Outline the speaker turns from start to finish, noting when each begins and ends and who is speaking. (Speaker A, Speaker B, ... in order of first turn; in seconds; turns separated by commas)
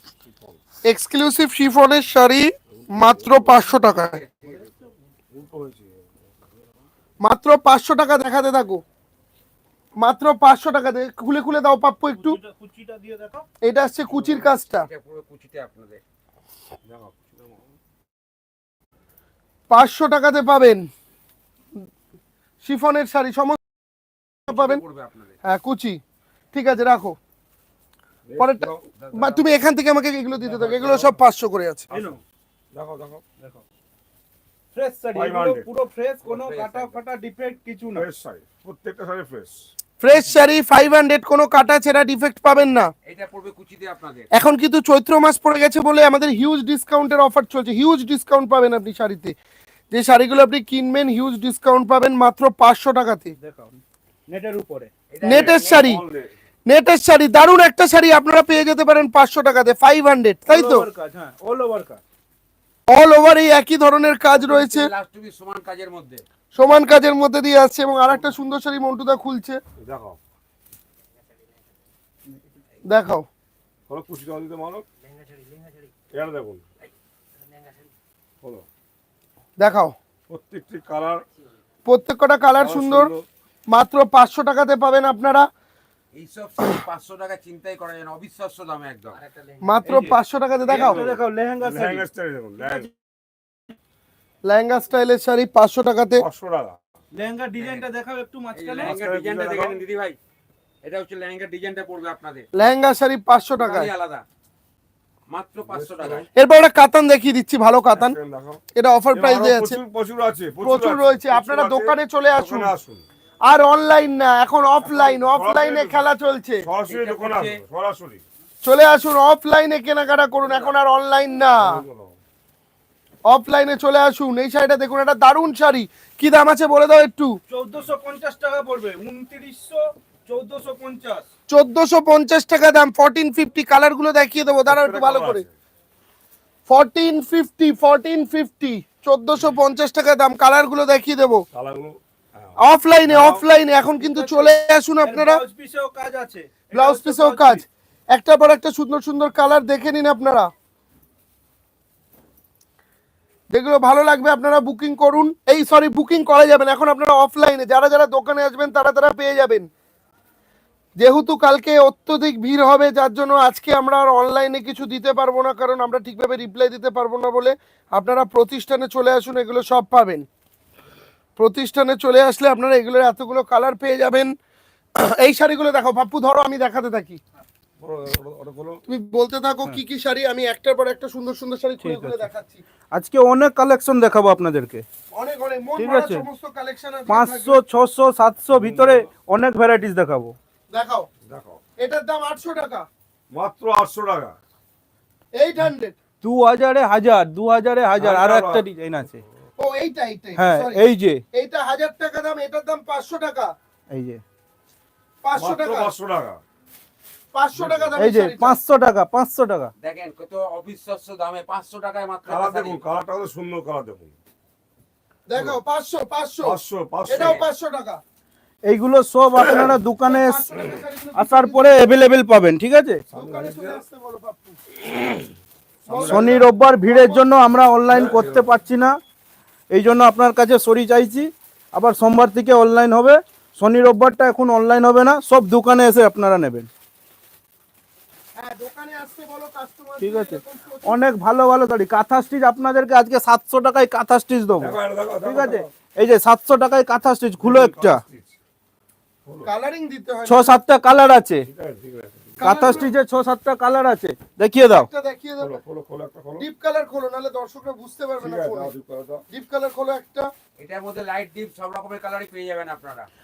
Speaker A: 0.2-0.6, Speaker B: 0.8-4.2, Speaker A: 2.7-3.8, Speaker C: 3.8-4.7, Speaker A: 5.3-6.3, Speaker B: 7.2-8.8, Speaker B: 10.0-12.4, Speaker D: 12.1-13.4, Speaker B: 13.6-14.9, Speaker C: 14.1-16.0, Speaker A: 16.9-17.5, Speaker B: 19.7-20.9, Speaker B: 22.6-23.6, Speaker C: 24.5-25.4, Speaker B: 24.5-24.8, Speaker B: 25.4-26.0, Speaker B: 26.5-27.1, Speaker A: 28.2-28.9, Speaker B: 28.4-31.9, Speaker C: 29.0-29.4, Speaker D: 30.5-31.1, Speaker A: 31.9-32.2, Speaker D: 31.9-32.2, Speaker A: 32.7-33.2, Speaker D: 34.7-38.0, Speaker A: 35.1-35.7, Speaker C: 36.2-37.0, Speaker A: 37.9-39.7, Speaker B: 40.0-42.9, Speaker C: 43.0-44.3, Speaker B: 44.3-49.3, Speaker B: 49.9-53.3, Speaker D: 53.4-54.9, Speaker C: 55.1-55.9, Speaker B: 55.2-56.0, Speaker A: 55.3-56.3, Speaker B: 56.7-60.9, Speaker D: 60.5-62.0, Speaker B: 62.9-64.9, Speaker C: 64.3-66.2, Speaker B: 66.5-69.6, Speaker A: 69.8-70.2, Speaker B: 72.9-73.3, Speaker A: 73.9-74.8, Speaker C: 75.2-75.9, Speaker A: 76.1-76.6, Speaker C: 77.5-77.9, Speaker B: 79.6-80.0, Speaker A: 80.3-81.2, Speaker B: 81.8-83.1, Speaker A: 82.6-83.2, Speaker B: 83.7-85.5, Speaker C: 86.1-89.9, Speaker B: 89.6-91.0, Speaker D: 89.9-90.2, Speaker D: 90.7-92.0, Speaker A: 90.7-92.9, Speaker D: 92.6-92.9, Speaker B: 94.5-96.2, Speaker A: 96.2-96.8, Speaker D: 97.2-98.9, Speaker C: 97.6-97.9, Speaker C: 98.5-100.2, Speaker A: 98.8-99.8, Speaker C: 100.8-102.5, Speaker B: 102.5-103.9, Speaker C: 103.6-104.2, Speaker C: 105.3-106.3, Speaker A: 105.7-106.2, Speaker B: 106.3-108.2, Speaker A: 107.9-108.6, Speaker B: 108.7-109.8, Speaker A: 109.1-113.0, Speaker B: 110.6-112.7, Speaker B: 113.4-116.7, Speaker A: 114.8-116.0, Speaker A: 116.6-118.2, Speaker C: 116.9-117.6, Speaker B: 118.6-121.8, Speaker A: 121.5-122.2, Speaker B: 123.3-127.4, Speaker D: 127.5-131.2, Speaker B: 131.5-135.4, Speaker A: 134.7-135.5, Speaker B: 136.7-141.4, Speaker A: 141.5-143.4, Speaker B: 142.6-145.4, Speaker D: 143.8-147.6, Speaker B: 146.7-150.5, Speaker B: 153.5-159.7, Speaker B: 161.0-170.2, Speaker B: 171.4-174.3, Speaker B: 175.0-177.2, Speaker A: 177.8-178.8, Speaker B: 178.9-182.6, Speaker D: 181.8-182.3, Speaker D: 182.9-184.8, Speaker B: 185.1-187.6, Speaker D: 185.8-186.2, Speaker D: 187.1-190.3, Speaker A: 188.5-189.1, Speaker B: 190.7-191.1, Speaker A: 191.2-191.6, Speaker B: 191.8-192.9, Speaker A: 193.3-194.3, Speaker B: 195.3-196.0, Speaker D: 196.2-199.2, Speaker A: 198.0-198.7, Speaker B: 199.6-203.5, Speaker D: 200.3-201.2, Speaker D: 203.9-204.2, Speaker B: 205.2-205.9, Speaker A: 205.3-206.4, Speaker B: 207.3-208.6, Speaker A: 207.6-208.0, Speaker D: 208.0-209.7, Speaker C: 209.8-212.8, Speaker A: 212.3-214.2, Speaker B: 215.3-216.6, Speaker A: 216.4-217.4, Speaker B: 217.1-218.0, Speaker C: 217.1-217.4, Speaker D: 218.7-220.4, Speaker A: 219.4-219.7, Speaker B: 220.1-222.0, Speaker D: 221.2-223.0, Speaker A: 223.1-223.8, Speaker B: 223.1-224.6, Speaker A: 225.8-226.4, Speaker B: 225.8-227.2, Speaker D: 226.0-229.0, Speaker A: 227.9-228.5, Speaker D: 229.7-236.7, Speaker B: 238.4-241.0, Speaker D: 240.0-248.0, Speaker A: 244.6-245.7, Speaker A: 247.4-248.4, Speaker B: 249.4-250.6, Speaker D: 250.3-251.5, Speaker A: 251.4-252.3, Speaker B: 252.4-252.9, Speaker D: 252.4-254.9, Speaker B: 254.7-255.6, Speaker A: 255.4-256.4, Speaker B: 256.4-258.7, Speaker A: 258.2-259.2, Speaker B: 259.3-260.3, Speaker C: 260.6-263.1